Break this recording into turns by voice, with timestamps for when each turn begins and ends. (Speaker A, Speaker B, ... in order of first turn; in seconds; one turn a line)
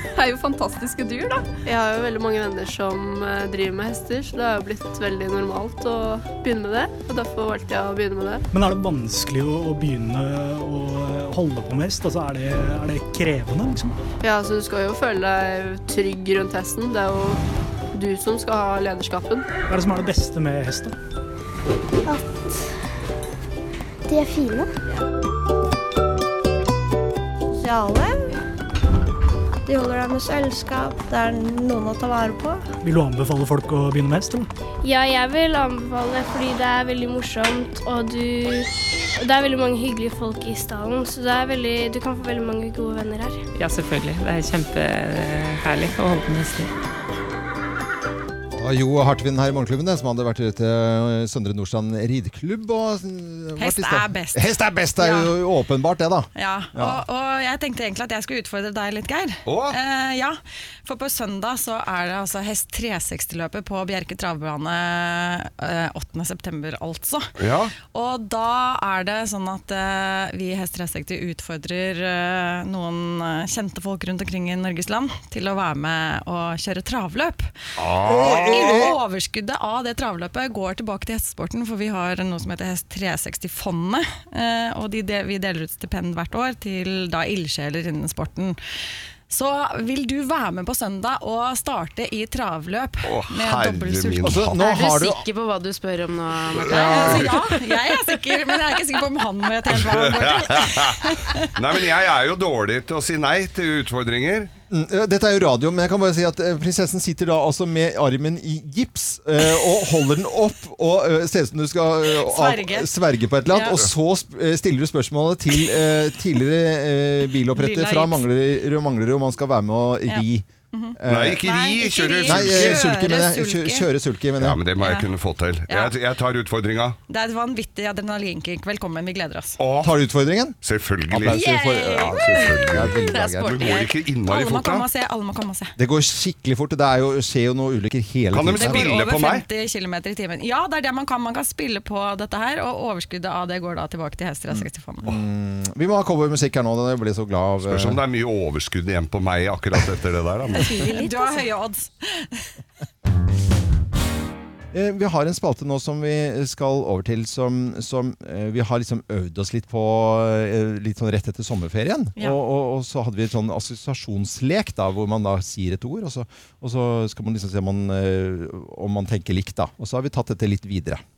Speaker A: 1.6-8.4
Speaker B: 8.5-14.0
Speaker A: 14.2-17.4
Speaker A: 17.9-19.4
Speaker B: 19.7-20.9
Speaker C: 22.1-22.6
Speaker C: 24.1-24.7
Speaker C: 27.5-28.3
Speaker C: 29.6-32.6
Speaker B: 32.8-34.5
Speaker D: 34.8-43.4
Speaker E: 43.5-46.7
Speaker F: 48.5-57.0
Speaker G: 53.6-55.3
Speaker G: 56.3-67.3
Speaker H: 59.5-59.8
Speaker H: 67.4-67.7
Speaker G: 67.9-77.5
Speaker H: 77.8-78.9
Speaker F: 78.0-79.0
Speaker G: 78.1-88.6
Speaker G: 89.3-94.4
Speaker H: 93.0-94.6
Speaker F: 94.2-95.2
Speaker I: 94.5-97.2
Speaker H: 96.5-97.4
Speaker F: 96.7-97.3
Speaker G: 96.7-101.5
Speaker H: 99.7-104.5
Speaker F: 104.7-120.5
Speaker G: 112.1-112.9
Speaker G: 113.5-113.8
Speaker G: 117.4-118.2
Speaker G: 120.0-123.9
Speaker F: 121.0-121.4
Speaker H: 121.0-122.9
Speaker F: 122.2-124.6
Speaker H: 124.4-127.0
Speaker G: 124.8-125.1
Speaker G: 125.7-125.9
Speaker G: 127.1-129.6
Speaker H: 129.6-129.9
Speaker F: 129.8-130.6
Speaker H: 130.6-131.4
Speaker F: 131.1-133.7
Speaker I: 131.3-133.9
Speaker H: 132.1-134.9
Speaker G: 134.3-135.7
Speaker F: 135.8-138.9
Speaker H: 138.3-139.4
Speaker G: 138.6-145.1
Speaker F: 144.5-148.0
Speaker H: 147.6-150.7
Speaker I: 150.5-151.5
Speaker G: 150.7-152.5
Speaker F: 154.7-171.0